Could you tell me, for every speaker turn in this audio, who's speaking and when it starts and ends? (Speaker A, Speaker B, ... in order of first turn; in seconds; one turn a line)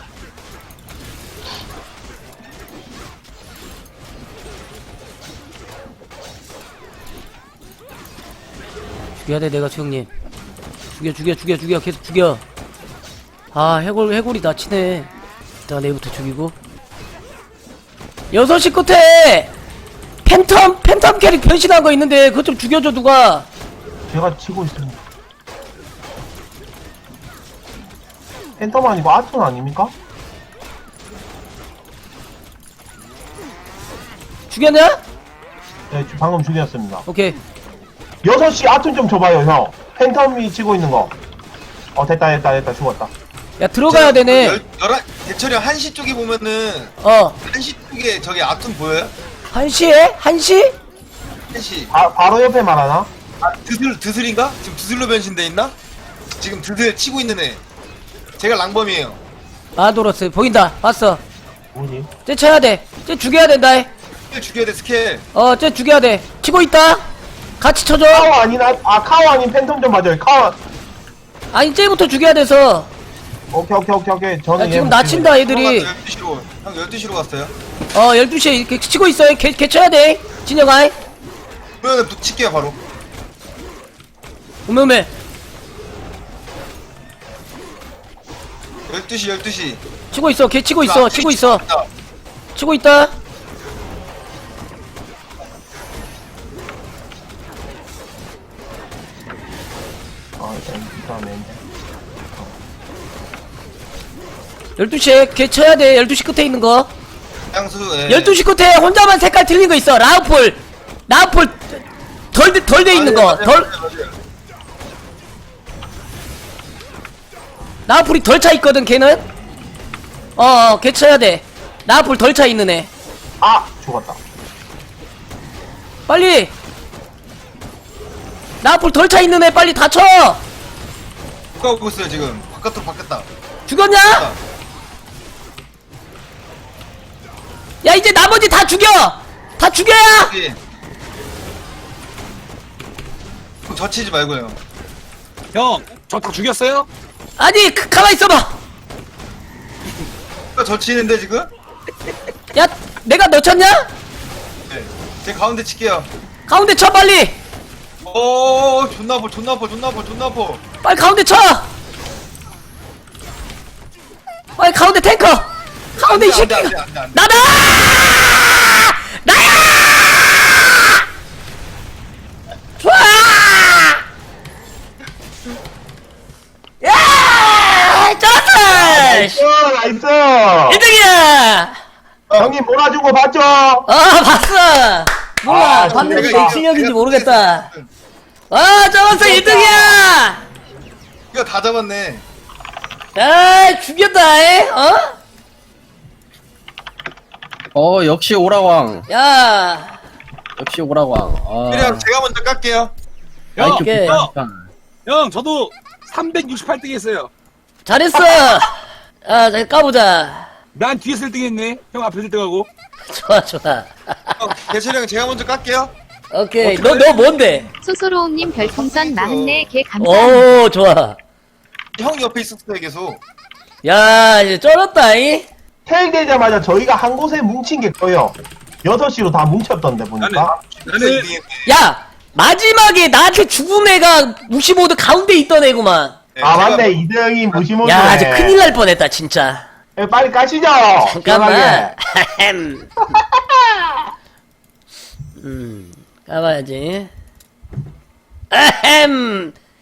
Speaker A: 9.2-10.1
Speaker A: 10.9-12.4
Speaker A: 13.5-15.1
Speaker A: 15.7-16.5
Speaker A: 18.3-19.5
Speaker A: 20.2-23.5
Speaker B: 24.1-25.0
Speaker B: 28.6-29.9
Speaker A: 34.5-35.0
Speaker B: 35.9-37.0
Speaker A: 37.0-37.4
Speaker B: 38.2-41.1
Speaker B: 41.9-43.1
Speaker A: 43.6-44.6
Speaker C: 43.9-49.1
Speaker A: 47.0-47.4
Speaker A: 49.5-50.7
Speaker C: 51.5-51.9
Speaker B: 51.9-53.1
Speaker C: 53.4-55.7
Speaker C: 56.3-57.6
Speaker C: 58.4-59.2
Speaker A: 59.8-61.2
Speaker B: 61.7-62.1
Speaker A: 62.2-63.9
Speaker C: 64.3-65.2
Speaker A: 65.3-67.0
Speaker A: 67.6-68.3
Speaker B: 68.1-70.6
Speaker A: 71.5-72.9
Speaker B: 73.5-75.4
Speaker A: 74.6-75.9
Speaker C: 75.3-77.5
Speaker A: 77.9-80.9
Speaker C: 81.8-82.8
Speaker A: 84.7-85.1
Speaker C: 88.9-89.8
Speaker A: 90.1-91.6
Speaker C: 90.8-91.9
Speaker A: 92.5-93.1
Speaker B: 100.4-101.6
Speaker A: 104.8-106.9
Speaker C: 107.5-108.4
Speaker A: 108.1-113.7
Speaker C: 112.9-114.1
Speaker A: 117.8-119.2
Speaker A: 120.3-122.9
Speaker B: 123.4-124.2
Speaker A: 126.1-126.5
Speaker A: 128.6-130.4
Speaker C: 131.6-133.3
Speaker A: 133.7-134.3
Speaker C: 134.1-134.4
Speaker A: 137.8-140.3
Speaker C: 140.2-140.6
Speaker C: 143.7-144.6
Speaker D: 145.5-146.9
Speaker A: 147.4-148.6
Speaker C: 150.5-151.5
Speaker A: 152.5-153.9
Speaker C: 154.7-156.1
Speaker A: 156.5-157.3
Speaker C: 158.0-160.6
Speaker A: 160.8-161.7
Speaker A: 164.6-171.0
Speaker C: 166.0-167.8
Speaker A: 172.8-174.0
Speaker A: 176.8-179.4
Speaker B: 178.7-180.8
Speaker A: 180.7-181.8
Speaker C: 182.3-182.5
Speaker B: 182.4-183.9
Speaker A: 183.9-187.7
Speaker B: 185.4-186.6
Speaker C: 185.8-187.9
Speaker A: 188.5-190.4
Speaker C: 189.1-190.0
Speaker C: 191.3-192.2
Speaker A: 193.1-195.1
Speaker E: 197.7-199.0
Speaker A: 199.1-200.0
Speaker E: 200.6-202.1
Speaker C: 201.7-202.9
Speaker D: 203.6-204.3
Speaker E: 203.6-204.7
Speaker A: 203.7-204.2
Speaker D: 205.1-207.3
Speaker A: 207.8-208.7
Speaker A: 209.2-210.5
Speaker D: 210.7-212.7
Speaker A: 213.1-214.5
Speaker C: 214.4-215.9
Speaker A: 216.3-217.7
Speaker C: 216.6-217.6
Speaker F: 217.8-220.5
Speaker C: 218.4-219.7
Speaker A: 220.0-221.2
Speaker C: 222.0-223.2
Speaker A: 223.8-225.5
Speaker B: 225.8-230.6
Speaker D: 230.2-231.3
Speaker C: 230.6-231.7
Speaker A: 231.7-236.2
Speaker C: 236.3-237.0
Speaker B: 236.4-238.6
Speaker A: 237.8-239.7
Speaker B: 240.0-241.9
Speaker A: 241.0-242.9
Speaker B: 243.1-243.6
Speaker A: 245.4-247.1
Speaker A: 248.5-249.5